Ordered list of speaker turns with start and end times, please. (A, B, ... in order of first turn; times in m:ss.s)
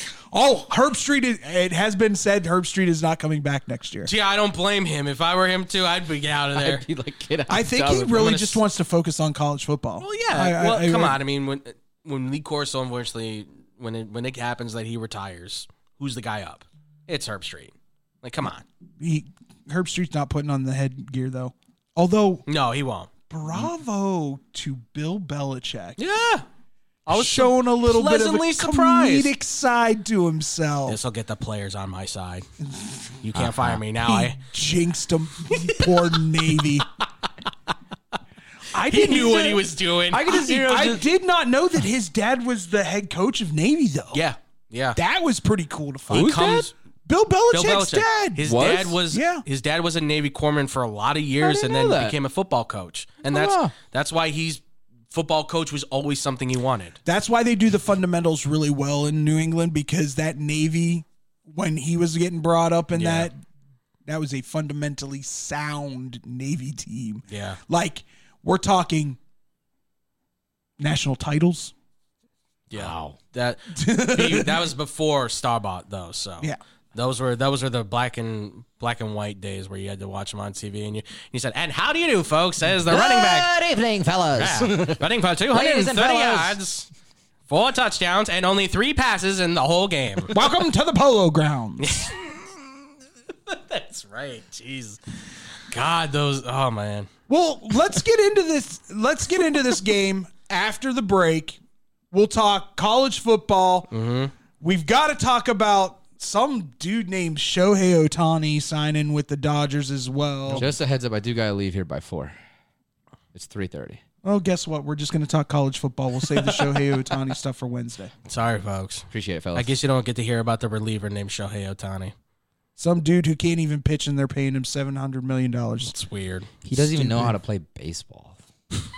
0:00.3-0:04.1 A
0:04.0-0:06.8 B
0:06.6-0:08.3 C
0:07.5-0:11.2 A
0:08.1-0:08.6 B
0:10.0-0:18.6 B
0:19.0-0:22.4 A
0:22.5-0:23.1 B
0:23.3-0:26.0 A
0:26.0-0:26.4 B
0:27.0-0:29.3 B
0:27.1-0:31.0 A
0:30.9-0:32.4 B
0:32.7-0:33.2 A
0:33.2-0:34.4 B
0:33.3-0:33.8 C
0:34.0-0:36.9 A
0:35.4-0:36.8 B
0:38.7-0:39.6 A
0:38.8-0:40.4 B
0:40.1-0:41.0 C
0:40.3-0:44.2 A
0:44.1-0:45.0 B
0:45.0-0:48.5 A
0:46.1-0:46.7 B
0:46.1-0:46.7 C
0:47.5-0:57.0 B
0:48.4-0:49.0 C
0:49.1-0:49.4 A
0:51.4-0:52.2 C
0:53.3-0:53.7 C
0:57.0-1:03.4 A
1:02.9-1:03.3 B
1:04.0-1:09.2 A
1:07.3-1:07.6 B
1:10.8-1:11.7 A
1:12.7-1:23.5 B
1:13.7-1:14.7 A
1:22.8-1:26.6 C
1:24.4-1:26.9 B
1:27.5-1:30.4 B
1:30.3-1:31.9 A
1:31.8-1:32.3 B
1:33.5-1:35.0 B
1:35.7-1:37.1 B
1:37.3-1:41.6 A
1:42.1-1:43.9 A
1:43.9-1:44.3 B
1:44.6-1:50.7 A
1:50.5-1:52.3 C
1:53.3-1:54.0 C
1:54.2-1:58.1 A
1:58.2-2:02.1 B
1:59.1-1:59.8 C
2:02.8-2:05.9 A
2:05.8-2:06.5 B
2:06.6-2:08.4 C
2:06.7-2:07.4 A